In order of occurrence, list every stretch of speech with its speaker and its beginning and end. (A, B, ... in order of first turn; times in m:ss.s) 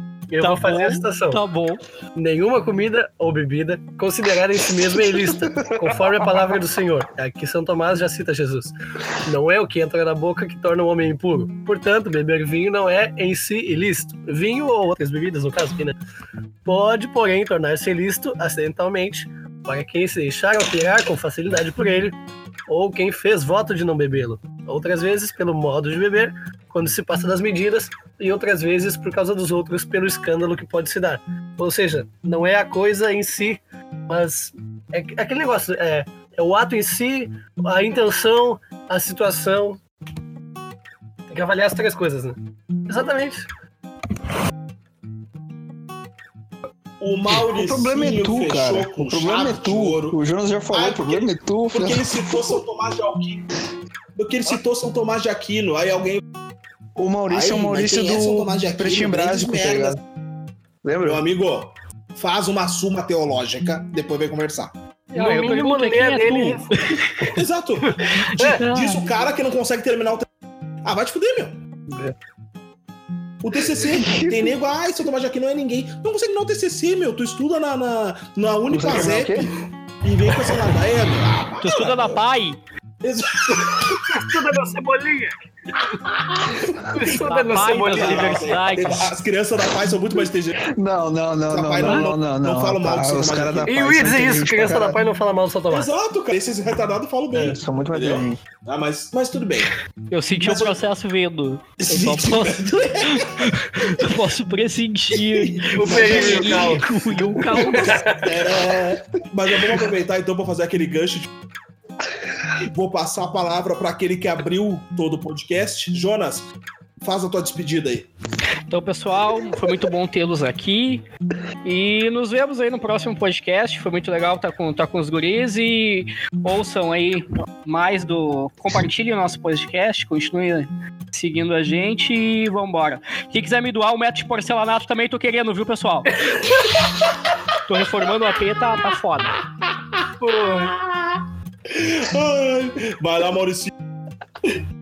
0:00.3-0:01.4 A
0:00.4-0:01.8 B
0:02.1-0:16.0 A
0:05.1-0:06.4 C
0:16.6-0:39.8 A
0:41.3-0:43.5 A
0:47.0-0:50.2 D
0:47.3-0:52.6 C
0:50.7-0:53.5 D
0:54.2-0:56.2 D
0:57.0-1:00.0 C
0:57.3-1:00.0 D
1:00.8-1:01.2 C
1:01.0-1:04.7 D
1:05.1-1:06.7 A
1:05.1-1:07.3 B
1:07.3-1:10.3 D
1:08.0-1:08.6 A
1:08.1-1:09.0 B
1:10.8-1:11.6 D
1:13.4-1:19.5 D
1:13.7-1:14.5 C
1:18.7-1:19.5 C
1:20.0-1:22.2 D
1:21.6-1:22.6 B
1:23.0-1:24.2 D
1:23.7-1:26.0 A
1:26.0-1:30.7 D
1:26.9-1:28.8 A
1:27.1-1:29.1 B
1:30.7-1:35.0 C
1:31.5-1:33.8 D
1:33.7-1:35.9 A
1:35.7-1:39.8 D
1:37.3-1:38.4 C
1:40.1-1:48.0 B
1:40.4-1:40.8 D
1:41.8-1:43.5 D
1:45.1-1:51.3 D
1:45.8-1:46.8 A
1:47.5-1:48.3 A
1:52.7-1:56.5 D
1:57.0-1:58.1 D
1:58.7-2:01.0 B
2:01.6-2:16.2 B
2:17.6-2:19.4 B
2:20.0-2:23.7 D
2:20.2-2:20.7 A